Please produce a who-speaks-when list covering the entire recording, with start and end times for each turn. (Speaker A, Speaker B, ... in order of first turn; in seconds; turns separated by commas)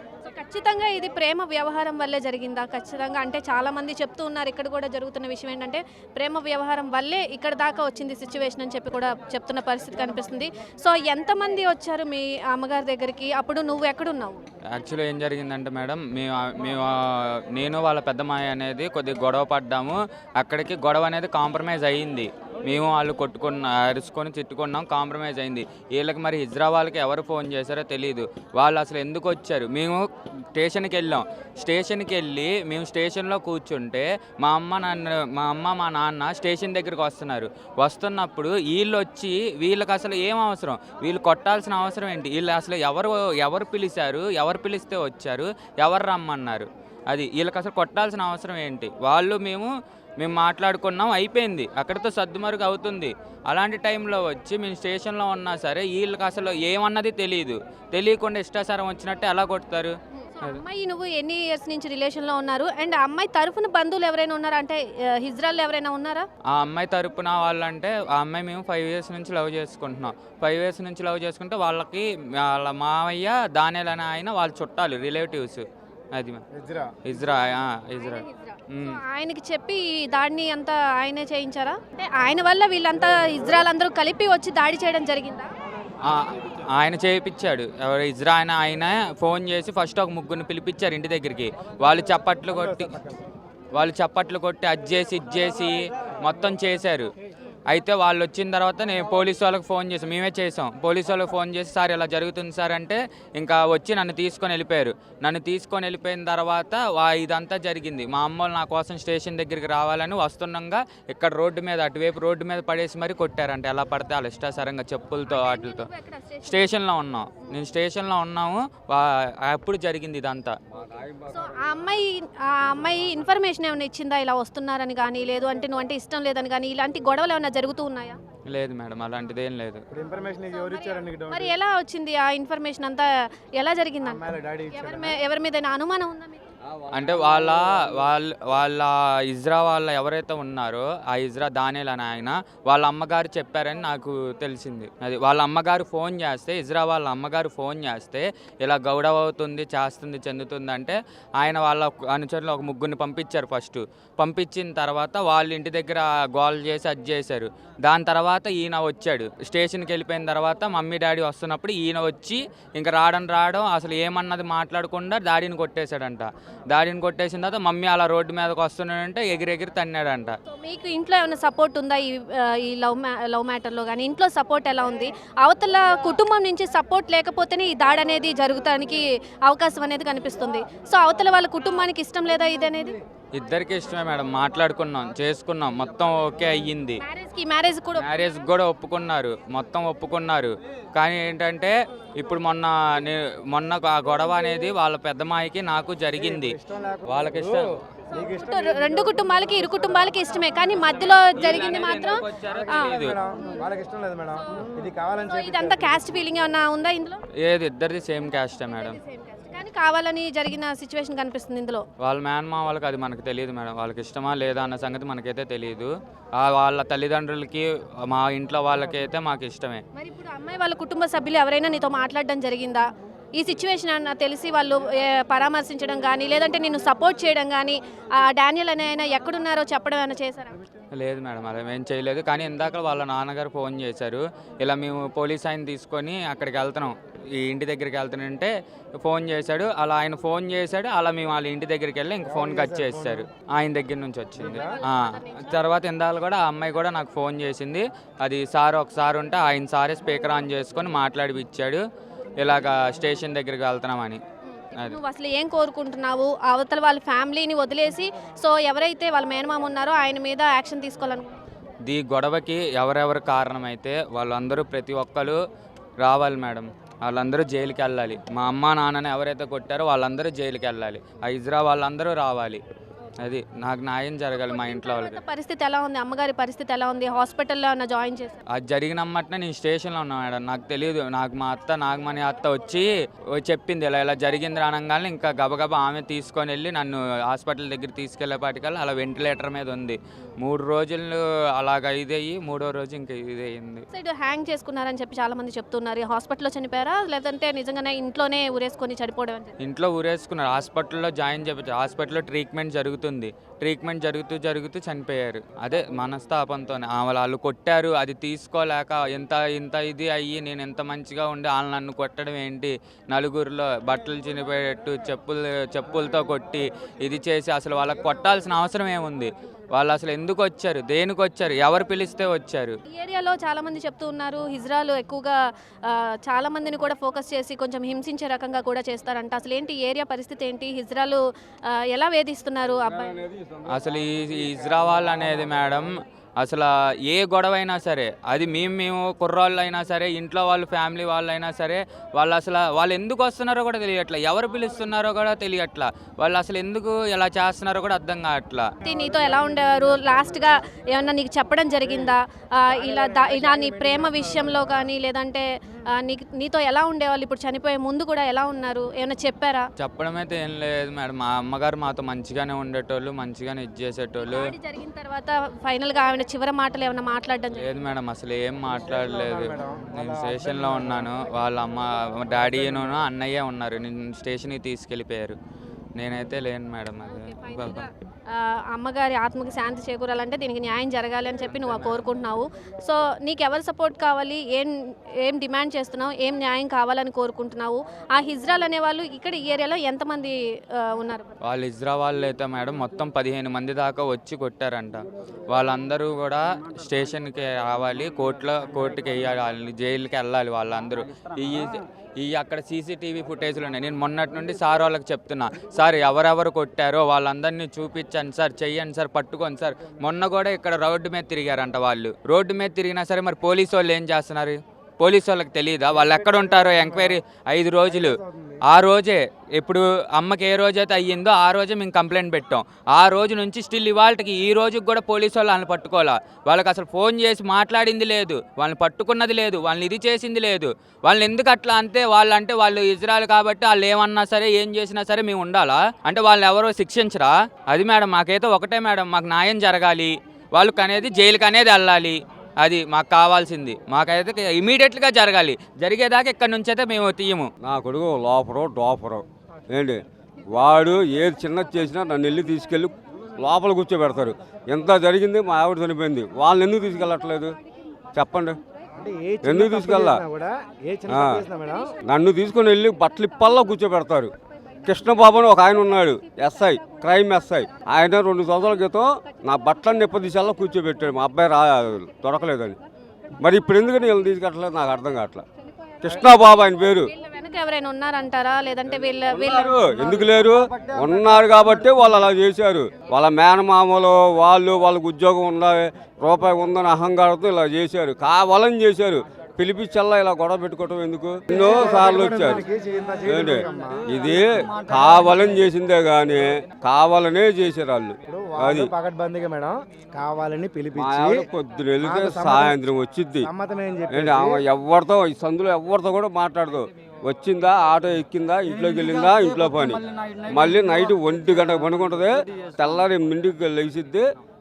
Speaker A: 0.2-14.4, Speaker B: 14.7-60.6, Speaker A: 60.2-66.3, Speaker B: 66.5-76.4, Speaker C: 76.5-76.9, Speaker B: 77.0-79.0, Speaker A: 78.0-85.5, Speaker B: 86.0-92.9, Speaker C: 92.5-93.2, Speaker B: 93.7-97.1, Speaker B: 97.7-115.9, Speaker A: 115.3-116.7, Speaker B: 116.4-120.5, Speaker D: 120.7-121.5, Speaker A: 121.3-128.2, Speaker B: 128.5-129.8, Speaker C: 129.9-131.5, Speaker A: 130.5-136.4, Speaker C: 134.0-135.1, Speaker D: 136.7-137.9, Speaker B: 136.9-170.4, Speaker A: 170.5-182.9, Speaker B: 183.3-187.0, Speaker A: 187.0-188.1, Speaker B: 188.0-197.8, Speaker C: 196.2-199.9, Speaker A: 198.2-202.9, Speaker B: 201.3-203.2, Speaker C: 202.7-206.0, Speaker A: 205.3-207.2, Speaker B: 207.4-209.0, Speaker A: 208.7-211.8, Speaker B: 212.0-219.8, Speaker A: 219.9-222.8, Speaker A: 223.4-230.6, Speaker B: 230.9-251.8, Speaker C: 242.2-243.2, Speaker C: 244.4-244.8, Speaker A: 244.5-245.6, Speaker B: 252.4-254.2, Speaker A: 254.5-261.4, Speaker B: 261.9-265.4, Speaker B: 266.0-272.6, Speaker B: 273.2-275.2, Speaker A: 274.4-278.4, Speaker B: 278.5-293.9, Speaker A: 293.9-299.5, Speaker B: 299.6-322.8, Speaker A: 322.9-333.2, Speaker D: 332.8-335.8, Speaker B: 333.7-348.7, Speaker A: 348.8-359.7, Speaker B: 359.8-364.4, Speaker A: 364.2-367.7, Speaker B: 367.6-375.4, Speaker C: 368.6-371.1, Speaker C: 372.3-372.9, Speaker B: 376.0-377.9, Speaker A: 377.1-391.3, Speaker B: 381.4-382.1, Speaker B: 391.4-447.5, Speaker C: 415.9-417.2, Speaker C: 417.9-418.6, Speaker D: 447.6-450.0, Speaker D: 450.5-457.5, Speaker D: 458.1-458.6, Speaker C: 459.0-461.9, Speaker D: 459.4-460.2, Speaker D: 461.1-461.4, Speaker D: 462.1-464.3, Speaker D: 464.8-472.8, Speaker D: 473.4-475.4, Speaker D: 476.0-477.1, Speaker A: 477.1-480.4, Speaker D: 479.3-492.6, Speaker C: 491.5-494.1, Speaker D: 493.2-498.9, Speaker C: 498.3-501.5, Speaker D: 500.9-503.5, Speaker C: 502.0-502.8, Speaker C: 503.4-504.6, Speaker D: 504.1-514.2